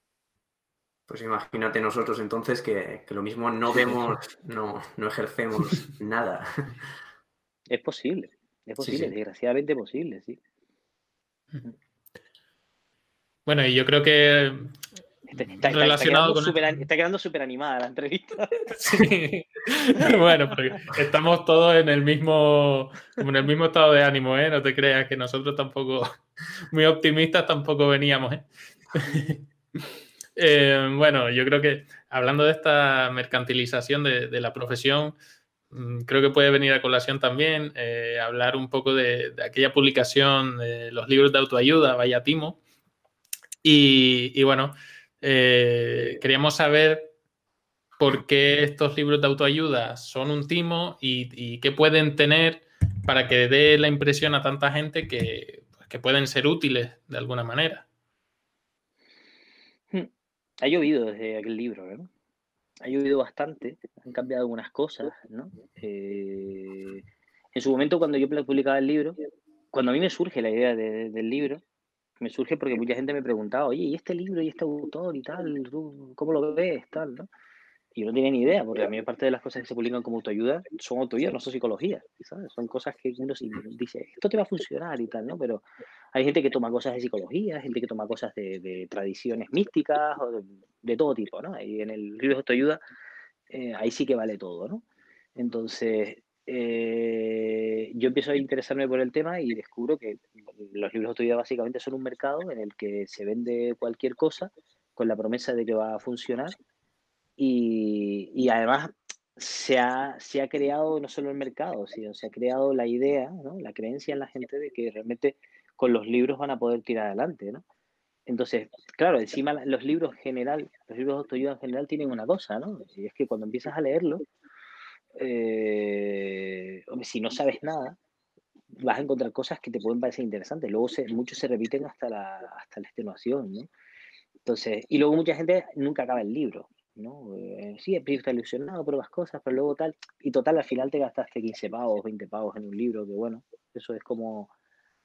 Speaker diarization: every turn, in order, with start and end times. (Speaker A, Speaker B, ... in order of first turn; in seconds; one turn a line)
Speaker A: 1.1-6.9
Speaker B: 7.7-10.4
Speaker A: 8.8-9.1
Speaker C: 13.5-14.7
Speaker B: 15.3-18.7
Speaker C: 15.7-16.8
Speaker C: 18.8-26.1
Speaker C: 26.7-29.4
Speaker C: 30.4-35.1
Speaker C: 35.7-42.6
Speaker C: 43.6-47.1
Speaker C: 48.0-57.9
Speaker B: 60.6-62.1
Speaker B: 62.8-67.0
Speaker B: 67.5-69.2
Speaker B: 69.7-71.6
Speaker B: 72.2-77.3
Speaker B: 78.0-85.6
Speaker B: 86.1-92.8
Speaker B: 93.5-94.8
Speaker B: 95.4-106.6
Speaker B: 107.4-117.6
Speaker B: 118.3-124.2
Speaker B: 125.2-128.0
Speaker B: 128.8-133.7
Speaker B: 134.4-144.5